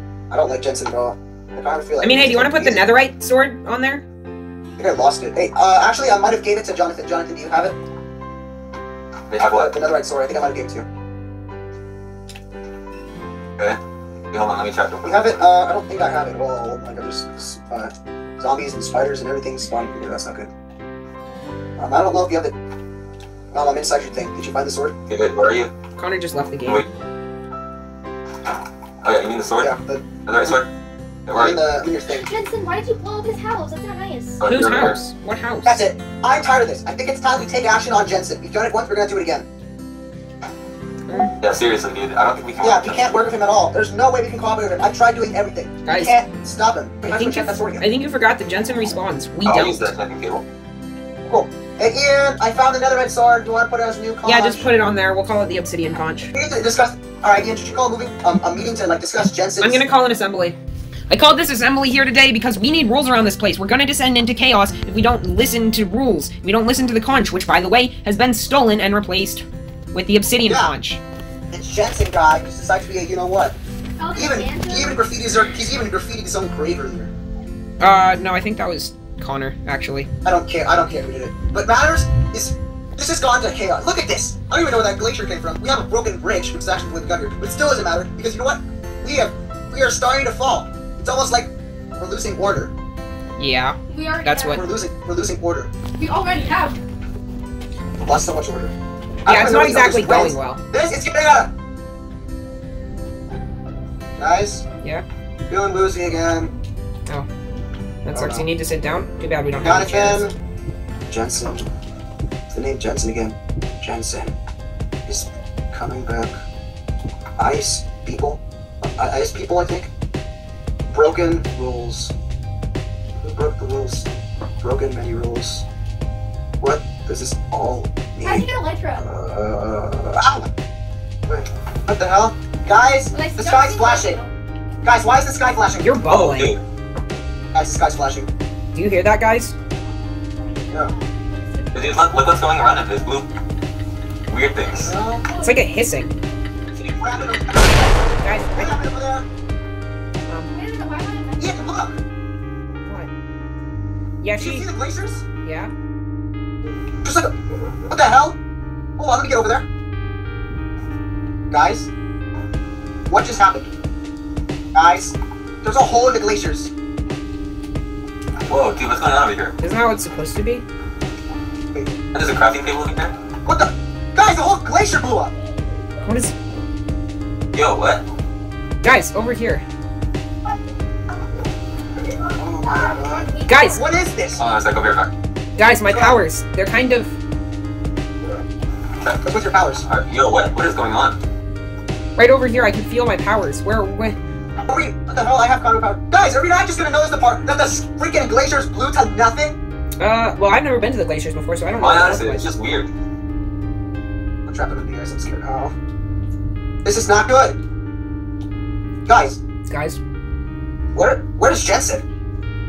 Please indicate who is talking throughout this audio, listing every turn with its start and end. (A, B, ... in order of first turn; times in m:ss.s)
0:00.3-0:02.8 A
0:02.0-0:04.0 B
0:04.8-0:07.8 A
0:09.3-0:09.8 C
0:09.4-0:10.9 A
0:14.3-0:15.4 C
0:15.0-0:20.5 A
0:21.8-0:22.5 A
0:23.5-0:25.0 A
0:25.1-0:25.7 C
0:26.0-0:26.8 B
0:29.0-0:30.7 C
0:29.6-0:30.1 A
0:31.3-0:31.8 C
0:31.3-0:32.3 A
0:32.3-0:34.4 D
0:34.4-0:35.0 C
0:34.4-0:35.8 B
0:35.6-0:39.5 A
0:41.1-0:41.3 B
0:41.4-0:43.3 C
0:42.6-0:47.8 A
0:45.9-0:46.2 B
0:47.1-0:49.9 B
0:49.5-0:50.4 C
0:51.3-0:54.7 A
0:54.2-0:56.3 B
0:56.3-0:59.8 A
0:59.6-1:00.6 B
1:01.1-1:11.0 B
1:10.5-1:10.7 A
1:11.5-1:13.6 A
1:14.0-1:15.0 D
1:14.2-1:17.1 A
1:17.8-1:20.1 B
1:20.2-1:32.7 A
1:33.4-1:34.6 B
1:33.9-1:34.7 D
1:34.5-1:35.7 A
1:36.0-1:36.8 D
1:38.0-1:38.7 A
1:39.2-1:41.5 A
1:39.3-1:40.6 B
1:44.2-1:44.6 A
1:45.5-1:46.5 A
1:48.0-1:50.3 B
1:48.1-1:48.5 A
1:49.6-1:50.3 A
1:51.1-1:51.7 A
1:52.5-1:54.4 A
1:55.1-1:56.4 A
1:57.4-1:59.9 A
2:00.9-2:02.1 A
2:03.2-2:04.1 A
2:04.6-2:05.6 A
2:06.6-2:10.5 A
2:08.2-2:09.0 D
2:11.3-2:14.2 A
2:13.1-2:14.3 D
2:14.8-2:16.0 A
2:15.8-2:16.6 B
2:16.1-2:16.6 C
2:17.5-2:18.3 A
2:18.7-2:19.5 B
2:20.4-2:22.0 D
2:21.7-2:23.3 C
2:24.3-2:24.9 C
2:24.8-2:25.3 A
2:25.3-2:25.6 D
2:25.4-2:26.1 B
2:26.8-2:27.4 C
2:27.0-2:29.3 A
2:28.2-2:28.7 B
2:30.3-2:30.5 B
2:30.5-2:31.8 D
2:31.4-2:32.0 A
2:34.2-2:34.7 B
2:34.4-2:35.2 A
2:35.4-2:35.7 B
2:37.0-2:37.3 A
2:37.9-2:38.4 A
2:39.0-2:39.7 A
2:41.5-2:41.9 A
2:43.1-2:43.7 A
2:44.7-2:46.7 A
2:48.5-2:49.6 C
2:49.6-2:50.7 B
2:52.1-2:53.2 C
2:53.4-2:55.3 A
2:56.0-2:56.3 B
2:57.5-2:58.1 C
2:58.8-2:59.6 B
3:02.4-3:04.4 A
3:02.7-3:03.8 D
3:03.5-3:03.8 B
3:04.4-3:05.1 C
3:05.6-3:07.2 B
3:05.9-3:06.2 A
3:09.2-3:09.9 A
3:09.9-3:11.2 C
3:12.2-3:14.2 B
3:14.6-3:19.6 A
3:20.0-3:22.5 B
3:21.8-3:22.9 C
3:24.5-3:25.8 A
3:26.8-3:27.6 A
3:29.1-3:29.4 A
3:29.6-3:30.0 B
3:30.9-3:32.0 A